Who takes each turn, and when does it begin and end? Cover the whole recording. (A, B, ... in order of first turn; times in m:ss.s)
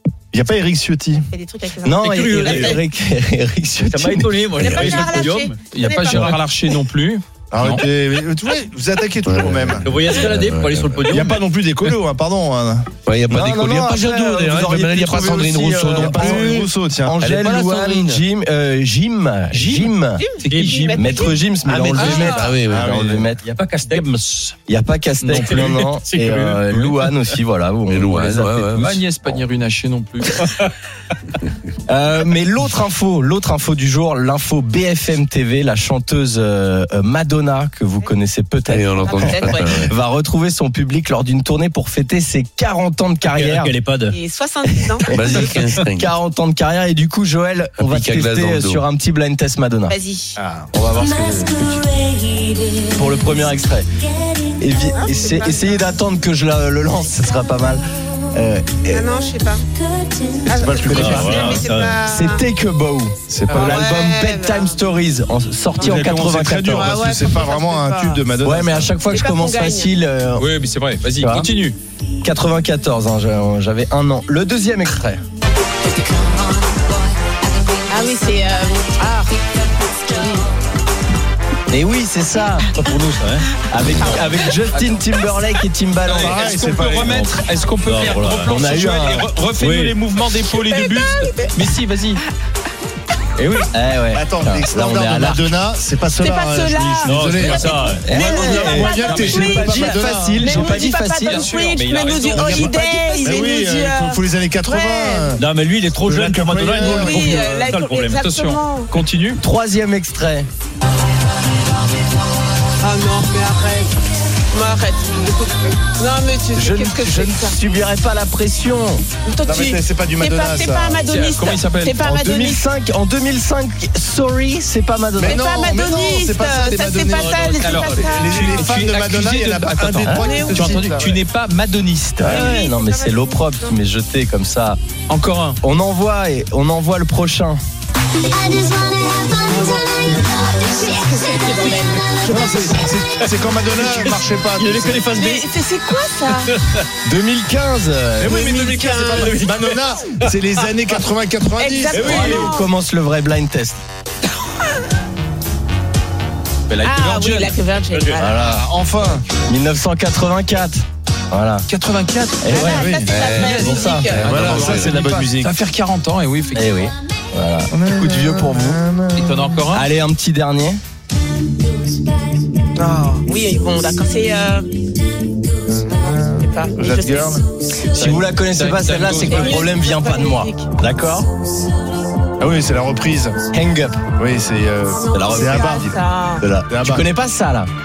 0:00.3-0:01.3 A
0:01.3-0:02.8 B
0:01.8-0:05.0 C
0:02.0-0:02.8 D
0:03.9-0:05.6 D
0:04.6-0:06.4 B
0:05.7-0:07.8 E
0:07.5-0:10.1 A
0:09.2-0:11.1 F
0:09.8-0:11.9 D
0:11.1-0:12.9 A
0:13.1-0:16.6 F
0:13.3-0:20.2 C
0:15.2-0:17.2 A
0:17.2-0:18.2 F
0:19.5-0:21.2 E
0:20.2-0:21.4 B
0:20.4-0:20.8 D
0:20.9-0:23.5 C
0:21.8-0:22.5 E
0:21.9-0:23.0 F
0:22.0-0:23.3 A
0:23.4-0:24.6 D
0:24.7-0:28.7 C
0:25.2-0:27.1 D
0:25.3-0:25.8 E
0:27.9-0:29.0 F
0:28.7-0:30.5 E
0:31.9-0:43.7 C
0:38.7-0:39.9 F
0:39.1-0:39.8 B
0:43.2-0:44.1 D
0:44.1-0:45.4 B
0:45.1-0:50.0 C
0:45.1-0:46.1 F
0:47.8-0:48.8 F
0:49.9-0:50.4 B
0:50.4-0:50.8 A
0:50.7-0:52.1 C
0:52.8-0:53.8 C
0:54.4-0:59.1 C
0:55.0-0:55.8 B
0:58.9-0:59.7 B
1:00.3-1:02.4 B
1:00.6-1:07.0 C
1:00.7-1:01.5 A
1:00.9-1:02.0 D
1:03.3-1:03.8 A
1:03.5-1:04.8 B
1:05.8-1:06.1 B
1:05.8-1:08.9 A
1:06.6-1:08.2 B
1:08.4-1:10.5 C
1:09.1-1:09.9 B
1:10.4-1:11.8 E
1:11.2-1:11.5 C
1:12.2-1:15.2 C
1:17.9-1:19.4 B
1:20.1-1:20.5 B
1:21.7-1:22.7 C
1:22.7-1:24.3 D
1:23.7-1:26.5 C
1:24.0-1:24.9 E
1:26.0-1:32.2 E
1:26.2-1:27.3 A
1:27.8-1:28.5 D
1:28.4-1:29.3 C
1:29.6-1:30.0 D
1:30.5-1:31.6 B
1:33.4-1:33.7 E
1:33.7-1:35.6 C
1:34.1-1:40.5 A
1:36.2-1:45.4 B
1:37.0-1:38.1 D
1:38.0-1:41.5 C
1:40.4-1:42.7 E
1:41.7-1:43.2 D
1:42.4-1:42.7 A
1:43.2-1:45.4 A
1:45.4-1:48.2 D
1:46.0-1:47.6 A
1:46.8-1:48.9 B
1:48.2-1:49.4 E
1:49.4-1:50.5 C
1:52.8-1:54.0 B
1:54.5-1:57.6 B
1:56.6-1:59.0 C
1:59.2-2:02.6 B
1:59.4-2:01.0 A
2:01.1-2:02.0 E
2:02.0-2:05.5 C
2:05.2-2:11.2 A
2:05.2-2:08.6 B
2:07.6-2:12.4 E
2:10.1-2:10.9 B
2:12.2-2:14.8 C
2:12.2-2:13.8 B
2:15.1-2:15.6 E
2:15.6-2:17.6 C
2:19.4-2:20.0 B
2:20.7-2:22.5 B
2:21.4-2:22.1 D
2:22.2-2:25.1 A
2:23.2-2:25.5 D
2:25.1-2:26.5 B
2:26.4-2:26.9 D
2:27.0-2:28.4 C
2:28.2-2:29.4 B
2:28.2-2:32.1 A
2:28.4-2:30.4 D
2:31.6-2:32.7 B
2:31.9-2:32.4 D
2:31.9-2:33.8 C
2:36.7-2:37.5 E
2:36.8-2:38.4 B
2:37.9-2:38.3 D
2:38.2-2:38.6 C
2:38.3-2:39.2 A
2:39.5-2:41.7 C
2:41.7-2:46.9 E
2:42.4-2:42.9 C
2:42.5-2:44.2 B
2:42.6-2:43.2 A
2:43.1-2:45.0 F
2:43.7-2:45.5 A
2:46.6-2:48.8 C
2:47.7-2:49.4 A
2:49.1-2:49.9 E
2:49.7-2:50.8 C
2:52.8-2:54.7 B
2:55.7-2:57.4 A
2:55.9-2:57.4 B
2:57.9-2:59.6 E
2:57.9-3:01.3 C
2:59.2-3:00.7 B
3:02.4-3:03.4 A
3:03.5-3:04.1 C
3:04.2-3:06.0 A
3:04.9-3:06.4 B
3:05.1-3:05.7 C
3:06.4-3:07.7 C
3:06.7-3:07.1 A